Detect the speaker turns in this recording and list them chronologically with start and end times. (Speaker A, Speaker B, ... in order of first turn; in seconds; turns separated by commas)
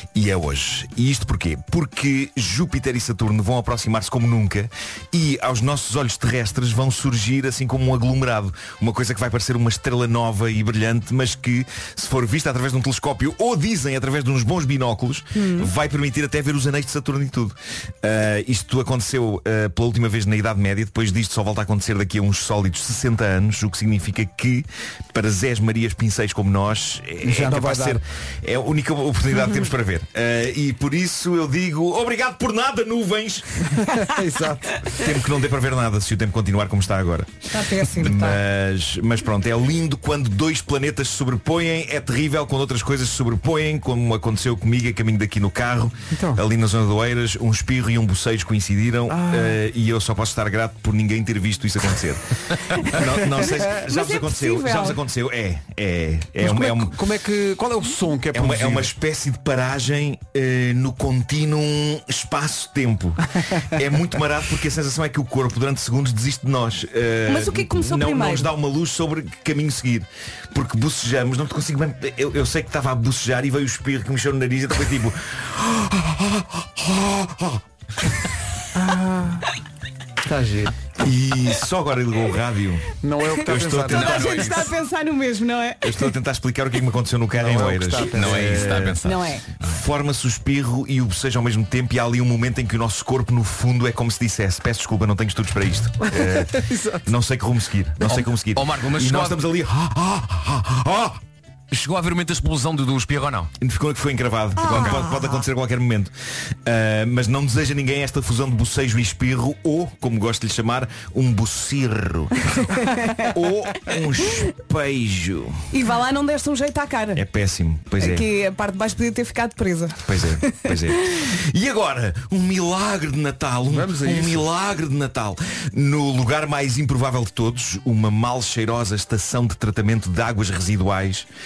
Speaker A: 0.1-33.6, Speaker B: 15.3-15.7, Speaker C: 27.2-28.0, Speaker C: 33.8-35.0, Speaker A: 34.9-57.0, Speaker B: 37.5-38.4, Speaker C: 46.1-46.4, Speaker C: 49.1-49.6, Speaker B: 53.9-55.0, Speaker C: 56.4-58.9, Speaker A: 58.3-77.6, Speaker B: 67.3-68.5, Speaker C: 78.7-79.5, Speaker C: 80.2-80.8, Speaker A: 81.0-84.6, Speaker C: 83.0-84.3, Speaker B: 83.3-86.1, Speaker D: 83.9-84.7, Speaker A: 85.8-101.2, Speaker C: 87.3-88.9, Speaker D: 88.0-89.3, Speaker B: 89.0-89.4, Speaker C: 96.1-97.1, Speaker D: 98.0-99.5, Speaker D: 101.7-103.5, Speaker A: 103.6-106.1, Speaker D: 104.6-105.1, Speaker A: 106.6-112.7, Speaker B: 112.7-113.3, Speaker A: 113.2-115.6, Speaker B: 115.7-117.2, Speaker A: 117.1-118.2, Speaker B: 118.0-120.7, Speaker A: 120.0-131.3, Speaker C: 123.7-124.5